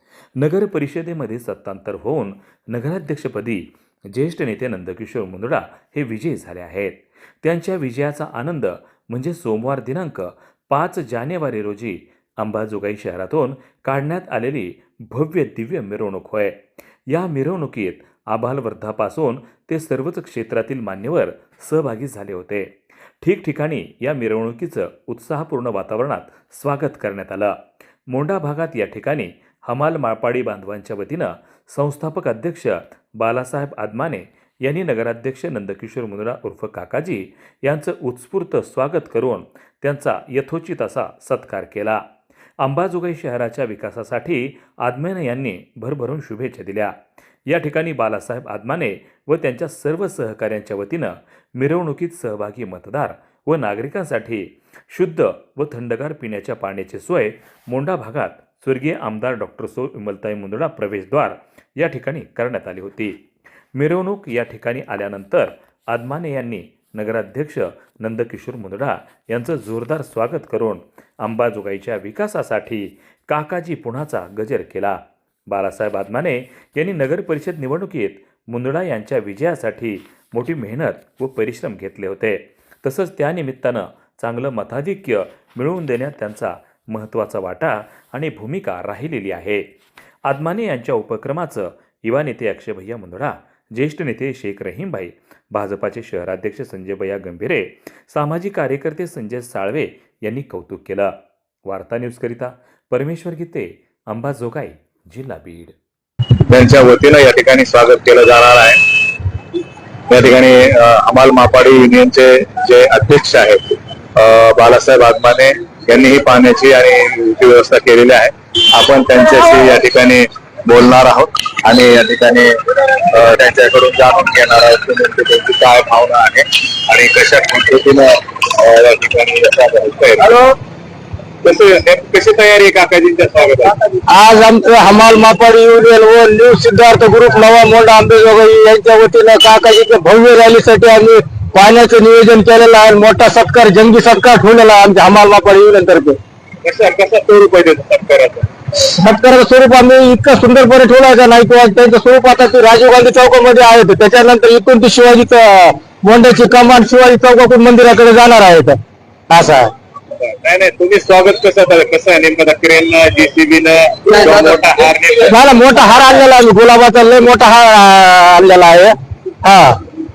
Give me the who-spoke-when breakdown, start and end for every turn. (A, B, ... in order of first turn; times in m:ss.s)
0:00.4-0:27.6 A
0:28.1-0:42.0 A
0:42.6-1:03.2 A
1:03.7-1:29.7 A
1:30.2-1:45.7 A
1:46.5-1:48.8 B
1:50.1-2:02.5 B
2:03.1-2:10.4 B
2:11.4-2:13.7 B
2:14.1-2:26.2 C
2:26.6-2:28.4 B
2:29.0-2:38.8 C
2:39.3-2:39.7 C
2:40.2-2:45.4 B
2:45.3-2:48.9 C
2:49.4-2:49.7 C